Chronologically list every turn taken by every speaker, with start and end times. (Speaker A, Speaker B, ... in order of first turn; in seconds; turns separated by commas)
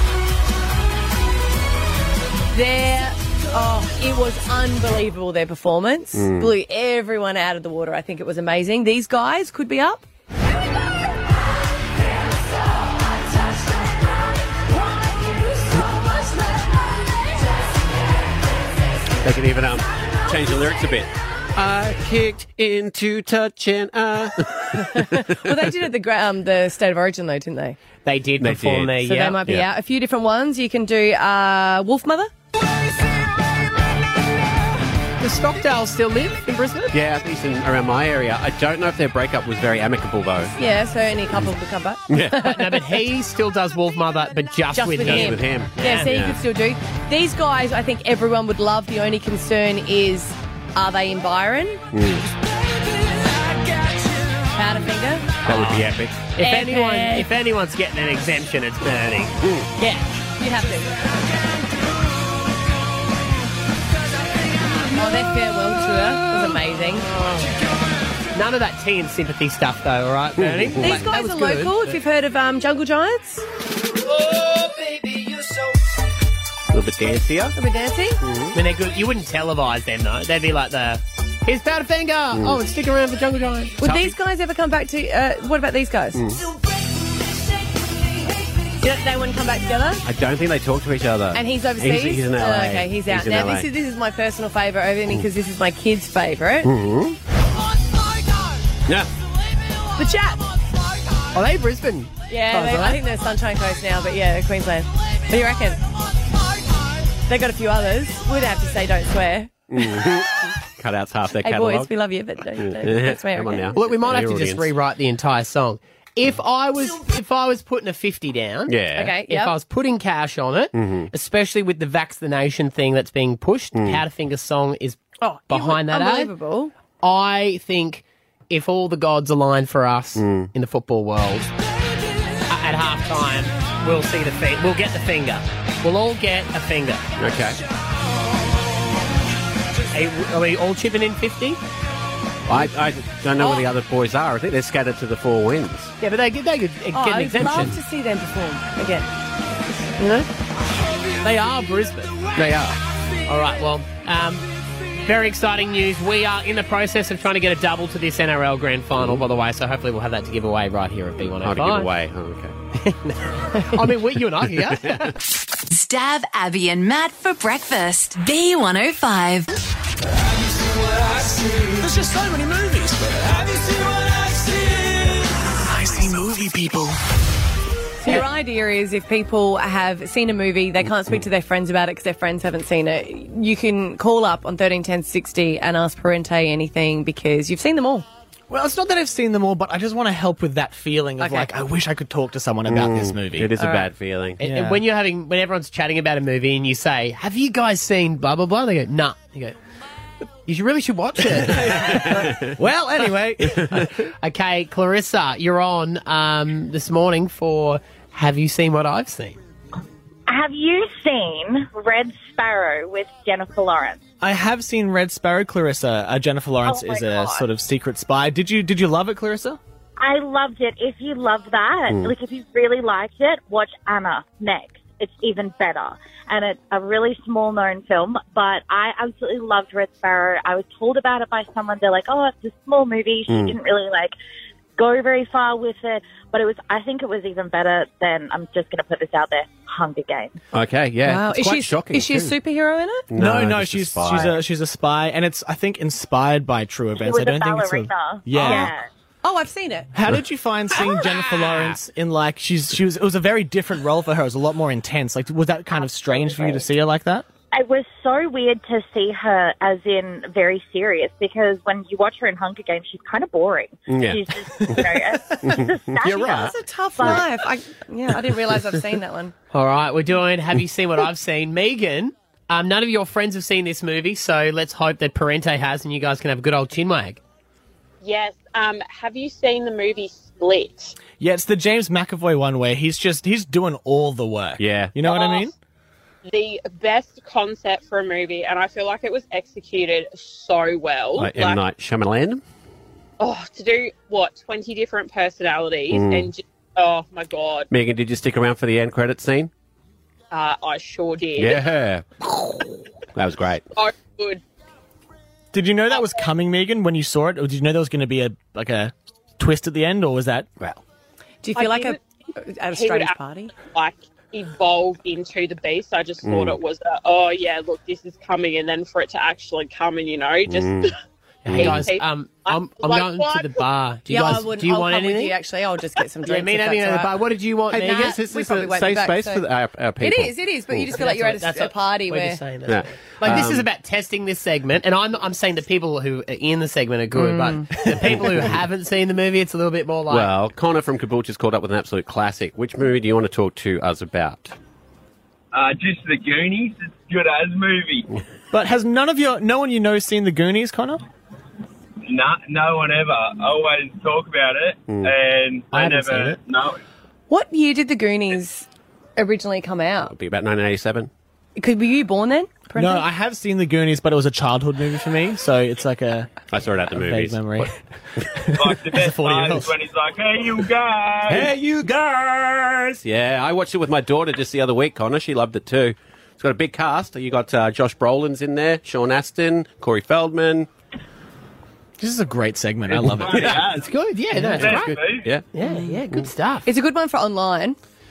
Speaker A: 2.5-10.0, Speaker B: 6.1-6.5, Speaker B: 19.2-25.7, Speaker A: 24.9-27.8, Speaker C: 28.0-29.4, Speaker B: 28.4-29.7, Speaker A: 29.0-32.3, Speaker C: 35.2-37.0, Speaker B: 36.9-40.5, Speaker A: 40.6-42.8, Speaker B: 42.1-42.5, Speaker C: 42.4-46.1, Speaker A: 44.7-51.8, Speaker B: 45.0-46.4, Speaker B: 51.9-52.3, Speaker A: 54.5-55.3, Speaker B: 55.4-56.2, Speaker C: 55.5-59.4, Speaker A: 56.4-57.3, Speaker B: 59.4-59.7, Speaker A: 59.8-61.1, Speaker A: 64.9-67.1, Speaker C: 67.1-67.5, Speaker C: 68.3-72.0, Speaker B: 70.4-71.0, Speaker A: 70.8-73.4, Speaker B: 76.7-77.5, Speaker A: 77.5-78.2, Speaker B: 78.2-78.5, Speaker C: 78.5-84.1, Speaker B: 82.3-82.6, Speaker A: 83.8-86.2, Speaker B: 86.1-86.4, Speaker A: 88.8-90.0, Speaker B: 90.0-93.7, Speaker A: 91.3-96.7, Speaker B: 96.6-97.2, Speaker A: 100.0-100.5, Speaker C: 101.3-103.0, Speaker A: 102.3-105.8, Speaker A: 107.3-109.5, Speaker B: 109.7-111.9, Speaker A: 111.4-113.8, Speaker B: 112.6-114.7, Speaker C: 113.7-126.3, Speaker B: 118.7-119.2, Speaker A: 118.9-119.5, Speaker B: 120.7-121.1, Speaker B: 123.7-124.0, Speaker A: 125.2-126.7, Speaker C: 127.0-131.5, Speaker B: 130.2-130.5, Speaker C: 132.5-137.1, Speaker B: 137.2-137.6, Speaker C: 139.9-141.6, Speaker B: 142.4-145.9, Speaker A: 143.4-143.6, Speaker C: 146.0-147.8, Speaker A: 146.9-149.1, Speaker C: 150.0-150.3, Speaker C: 151.2-152.3, Speaker B: 152.3-152.8, Speaker C: 153.2-161.9, Speaker B: 161.4-162.5, Speaker C: 162.8-165.1, Speaker B: 164.5-165.1, Speaker D: 165.7-169.5, Speaker E: 171.8-177.0, Speaker A: 178.0-188.1, Speaker F: 188.5-193.7, Speaker A: 191.2-191.5, Speaker B: 192.7-194.4, Speaker F: 194.4-194.8, Speaker C: 194.4-199.6, Speaker C: 200.4-202.2, Speaker B: 201.6-202.6, Speaker F: 202.6-203.6, Speaker B: 203.6-203.8, Speaker C: 203.7-209.4, Speaker G: 210.3-214.0, Speaker F: 214.2-219.6, Speaker G: 216.6-217.4, Speaker G: 220.0-234.1, Speaker B: 221.9-222.2, Speaker B: 233.3-233.6, Speaker G: 234.8-240.4, Speaker B: 240.5-242.4, Speaker A: 241.0-243.1, Speaker B: 243.1-244.4, Speaker F: 243.1-248.7, Speaker G: 247.0-248.9, Speaker A: 248.4-248.7, Speaker A: 249.2-249.9, Speaker F: 249.9-257.2, Speaker G: 256.2-256.6, Speaker G: 257.5-267.2, Speaker B: 263.9-266.5, Speaker A: 266.1-269.3, Speaker C: 269.5-277.2, Speaker H: 278.0-281.0, Speaker F: 281.1-285.5, Speaker B: 284.6-285.0, Speaker H: 285.0-285.5, Speaker H: 286.2-291.6, Speaker B: 291.1-292.4, Speaker H: 293.2-297.7, Speaker B: 295.9-296.3, Speaker B: 297.7-299.5, Speaker H: 300.3-301.6, Speaker B: 301.4-302.6, Speaker B: 303.1-303.6, Speaker H: 303.7-304.4, Speaker F: 305.5-310.5, Speaker H: 305.9-306.3, Speaker A: 311.4-313.6, Speaker H: 311.5-312.0, Speaker H: 312.7-320.9, Speaker B: 316.2-316.6, Speaker B: 320.5-320.9, Speaker C: 321.4-325.3, Speaker B: 321.4-321.9, Speaker H: 321.5-323.6, Speaker A: 324.1-327.2, Speaker C: 326.2-328.2, Speaker B: 327.7-330.9, Speaker A: 327.7-329.4, Speaker A: 330.0-332.4, Speaker C: 330.9-340.3, Speaker B: 332.7-333.7, Speaker A: 337.1-338.2, Speaker B: 340.1-344.5, Speaker I: 345.5-348.1, Speaker F: 348.5-351.0, Speaker I: 352.1-356.8, Speaker C: 355.7-356.4, Speaker A: 357.3-360.1, Speaker B: 360.1-361.1, Speaker A: 361.6-363.0, Speaker F: 362.8-366.3, Speaker B: 366.5-367.7, Speaker F: 366.9-367.7, Speaker I: 368.5-371.5, Speaker F: 368.9-369.7, Speaker F: 371.3-372.9, Speaker B: 373.0-380.7, Speaker F: 382.0-383.6, Speaker I: 383.0-383.9, Speaker B: 383.1-383.6, Speaker C: 383.7-386.7, Speaker I: 384.5-385.3, Speaker B: 384.6-385.4, Speaker A: 386.6-387.8